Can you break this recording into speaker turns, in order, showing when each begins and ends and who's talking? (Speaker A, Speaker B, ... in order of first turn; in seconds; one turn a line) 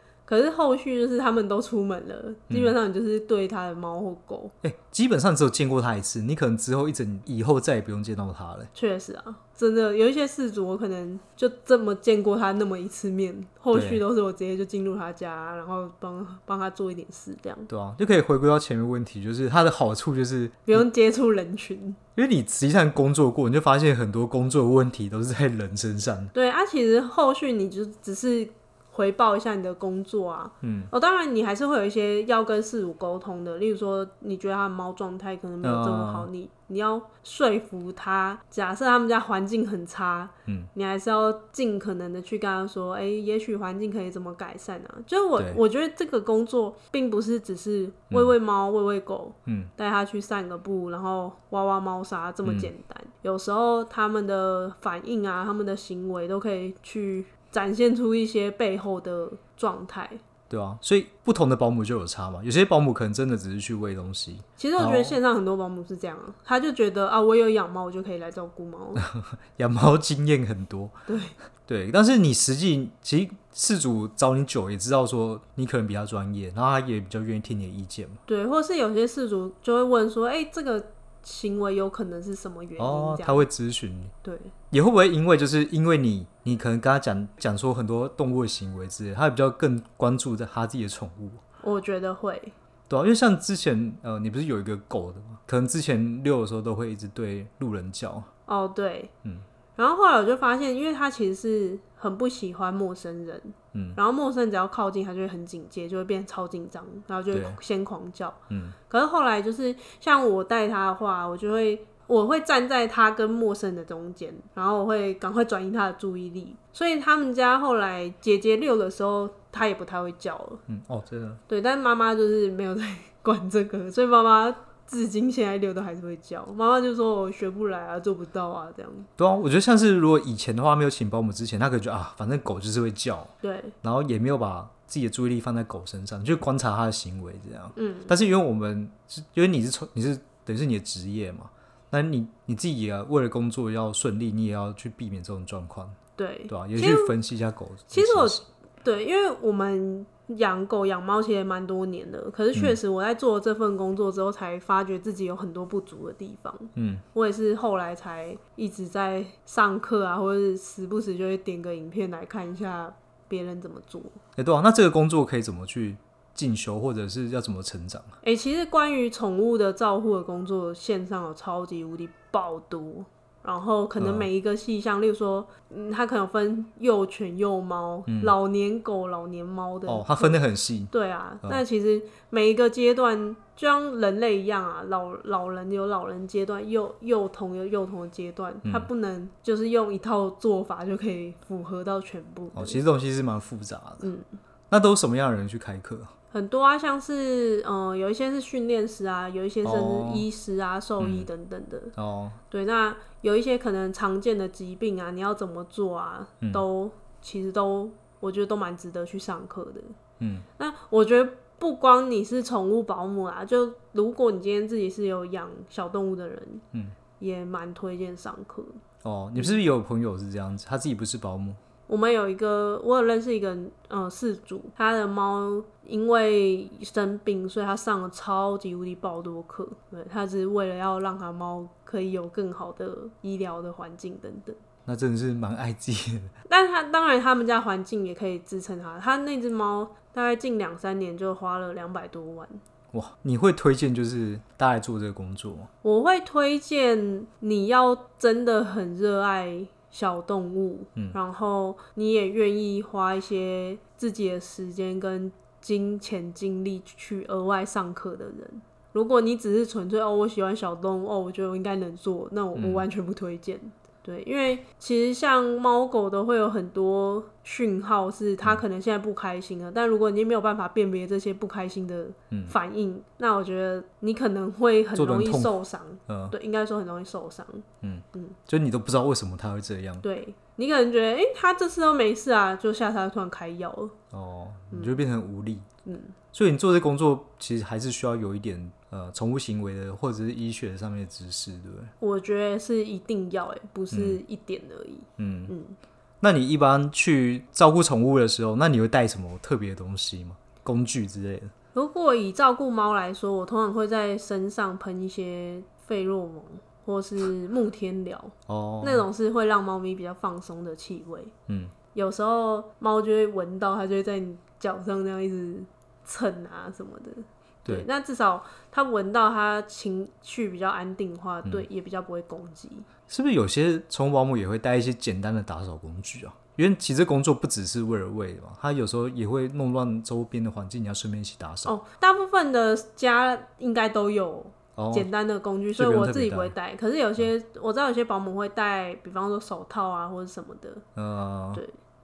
Speaker A: 0.3-4.5
Speaker B: 2.5-2.7
Speaker B: 4.6-8.7
Speaker A: 8.7-17.7
Speaker B: 13.7-14.0
Speaker B: 17.7-20.9
Speaker A: 20.6-22.0
Speaker B: 22.1-26.3
Speaker A: 26.3-60.2
Speaker B: 30.6-30.9
Speaker B: 35.6-36.3
Speaker B: 45.4-45.6
Speaker B: 49.5-49.7
Speaker B: 52.4-52.7
Speaker B: 60.5-65.2
Speaker A: 64.6-69.0
Speaker B: 69.0-70.9
Speaker A: 71.1-71.4
Speaker B: 71.7-78.2
Speaker A: 78.2-83.5
Speaker B: 82.8-84.1
Speaker A: 84.2-84.5
Speaker B: 84.7-91.4
Speaker A: 91.6-92.5
Speaker B: 92.9-98.3
Speaker A: 98.5-99.1
Speaker A: 99.8-120.6
Speaker B: 103.7-104.0
Speaker B: 107.3-107.6
Speaker B: 108.5-108.8
Speaker B: 120.7-121.4
Speaker A: 121.5-129.1
Speaker B: 129.2-145.9
Speaker A: 133.4-133.7
Speaker A: 137.8-138.1
Speaker A: 146.2-147.1
Speaker B: 146.5-148.4
Speaker A: 147.9-164.2
Speaker B: 156.8-157.0
Speaker B: 164.3-168.2
Speaker A: 168.2-192.8
Speaker B: 174.0-174.3
Speaker B: 178.1-178.3
Speaker B: 179.9-180.9
Speaker B: 188.6-188.9
Speaker B: 192.5-194.1
Speaker A: 194.0-194.3
Speaker B: 194.7-196.1
Speaker A: 196.3-201.9
Speaker B: 199.6-200.2
Speaker B: 201.0-201.3
Speaker B: 201.9-202.4
Speaker A: 202.5-209.9
Speaker B: 210.2-210.5
Speaker A: 210.6-216.6
Speaker A: 217.2-218.8
Speaker B: 219.0-221.6
Speaker A: 221.9-234.6
Speaker B: 234.8-236.3
Speaker A: 236.5-242.6
Speaker B: 242.9-245.7
Speaker A: 245.8-278.4
Speaker B: 262.5-262.8
Speaker B: 274.9-275.5
Speaker B: 276.1-276.3
Speaker B: 277.8-280.0
Speaker A: 280.0-283.9
Speaker B: 284.1-285.7
Speaker A: 284.7-285.0
Speaker A: 285.8-286.1
Speaker B: 286.3-291.9
Speaker A: 292.0-295.8
Speaker B: 293.9-294.2
Speaker B: 295.2-295.5
Speaker B: 296.2-301.5
Speaker A: 301.7-311.3
Speaker B: 308.5-309.1
Speaker B: 311.5-311.7
Speaker A: 311.9-322.9
Speaker B: 323.1-331.7
Speaker A: 331.6-340.8
Speaker B: 334.8-335.1
Speaker B: 335.8-336.5
Speaker B: 340.9-341.6